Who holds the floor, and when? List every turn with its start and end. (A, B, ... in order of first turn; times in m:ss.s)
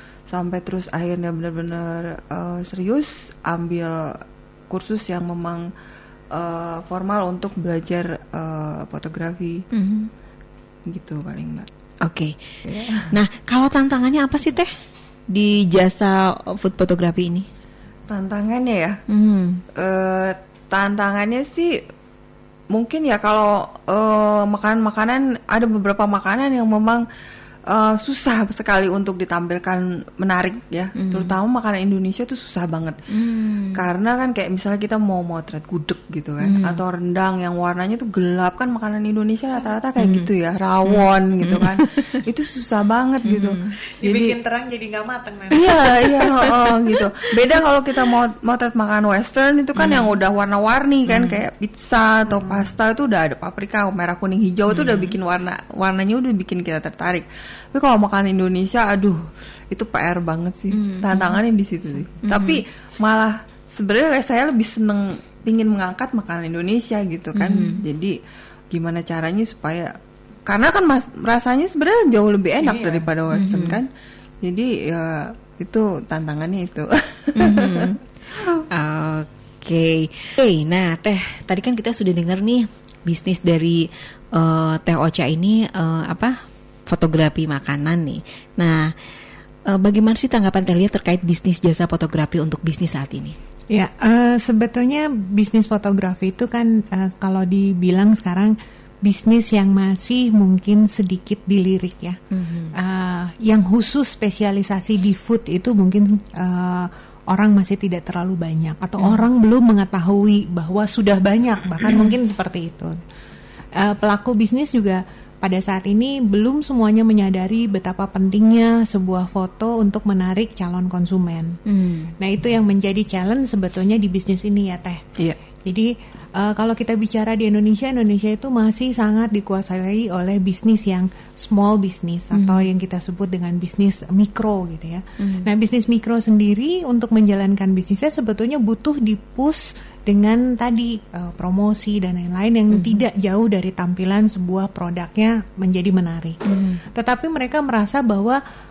0:00.3-0:04.0 A
0:04.7-0:05.6 A
0:06.3-0:09.6 A
0:09.7-0:10.1 B
0:10.9-0:11.7 A
0:12.0-0:14.7 B
0:12.7-0:13.1 A
0:15.3-0:17.4 B
0:18.1-0:18.9 A
0:19.1-0:19.6 B
0:19.8-0:21.7 A
0:22.7-0:27.0 A
0:27.7-0:33.0 A
0:31.0-0:31.4 B
0:33.1-0:33.8 B
0:33.7-0:44.4 A
0:36.4-0:36.8 B
0:40.0-0:40.3 B
0:40.8-0:42.2 B
0:43.2-0:43.7 B
0:44.0-0:45.7 C
0:45.5-0:59.2 A
0:46.0-0:46.5 B
0:49.8-0:50.1 B
0:51.1-0:51.4 B
0:54.7-0:55.2 B
0:59.7-1:08.1 A
1:00.7-1:01.4 B
1:02.2-1:02.6 B
1:07.3-1:07.8 B
1:08.7-1:09.9 A
1:10.4-1:13.9 A
1:12.6-1:13.1 C
1:13.3-1:13.8 B
1:14.4-1:18.6 A
1:17.4-1:18.0 B
1:18.7-1:26.4 B
1:26.9-1:28.9 B
1:29.7-1:33.4 B
1:33.7-1:42.2 C
1:42.3-1:42.7 B
1:42.7-1:52.9 C
1:49.0-1:49.2 B
1:53.8-2:01.6 C
2:01.6-2:02.1 B
2:02.2-2:05.0 C
2:05.6-2:26.4 C
2:12.3-2:12.7 B
2:15.2-2:15.5 B
2:22.7-2:23.0 B
2:26.4-2:26.8 B
2:26.9-2:28.4 C